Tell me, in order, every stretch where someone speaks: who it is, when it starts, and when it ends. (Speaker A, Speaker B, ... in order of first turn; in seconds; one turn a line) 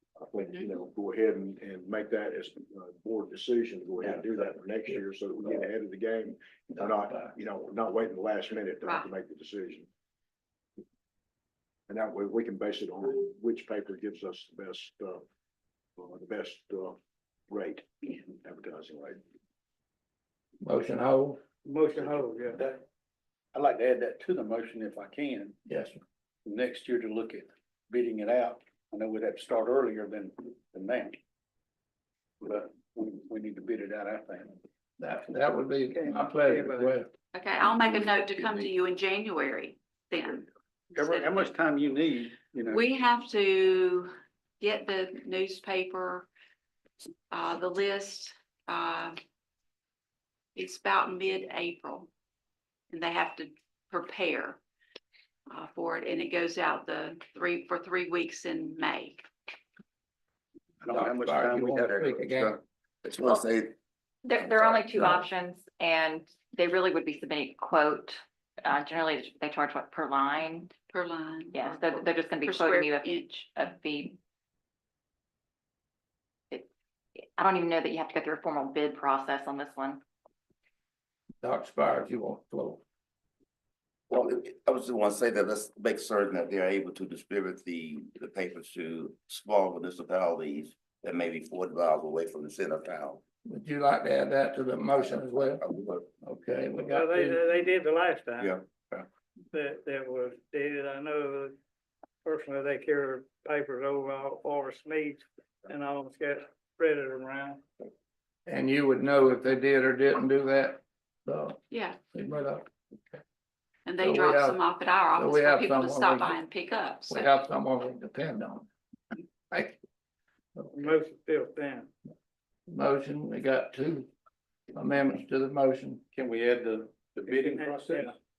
Speaker A: 0.2-9.9
Speaker A: 11.9-15.2
Speaker A: 16.0-17.0
Speaker A: 17.5-19.2
Speaker B: 20.6-21.4
Speaker C: 21.6-22.6
Speaker D: 22.0-22.8
Speaker D: 23.5-25.6
Speaker B: 25.7-26.0
Speaker D: 26.5-31.2
Speaker D: 32.4-34.6
Speaker B: 35.0-37.1
Speaker C: 35.9-37.0
Speaker E: 37.3-41.5
Speaker D: 41.0-42.9
Speaker E: 42.7-46.3
Speaker E: 47.3-49.2
Speaker E: 50.5-52.1
Speaker E: 52.9-54.6
Speaker E: 55.5-59.3
Speaker D: 60.8-62.6
Speaker B: 60.9-62.6
Speaker F: 61.9-62.5
Speaker F: 63.0-63.8
Speaker G: 64.2-70.7
Speaker F: 64.4-65.2
Speaker E: 70.9-73.4
Speaker G: 71.5-74.2
Speaker G: 77.4-80.0
Speaker B: 81.4-82.8
Speaker F: 84.1-93.2
Speaker B: 93.5-95.6
Speaker F: 95.0-96.1
Speaker B: 96.2-97.5
Speaker C: 96.9-98.6
Speaker C: 99.5-101.5
Speaker C: 102.2-107.6
Speaker B: 108.5-111.6
Speaker E: 111.7-112.0
Speaker B: 112.1-113.2
Speaker E: 113.9-117.3
Speaker B: 114.0-114.6
Speaker B: 115.1-116.4
Speaker B: 117.1-118.7
Speaker B: 119.5-119.8
Speaker B: 120.6-120.9
Speaker C: 120.7-121.9
Speaker B: 122.7-124.1
Speaker B: 124.8-126.0
Speaker D: 126.1-128.1
Speaker C: 127.3-128.2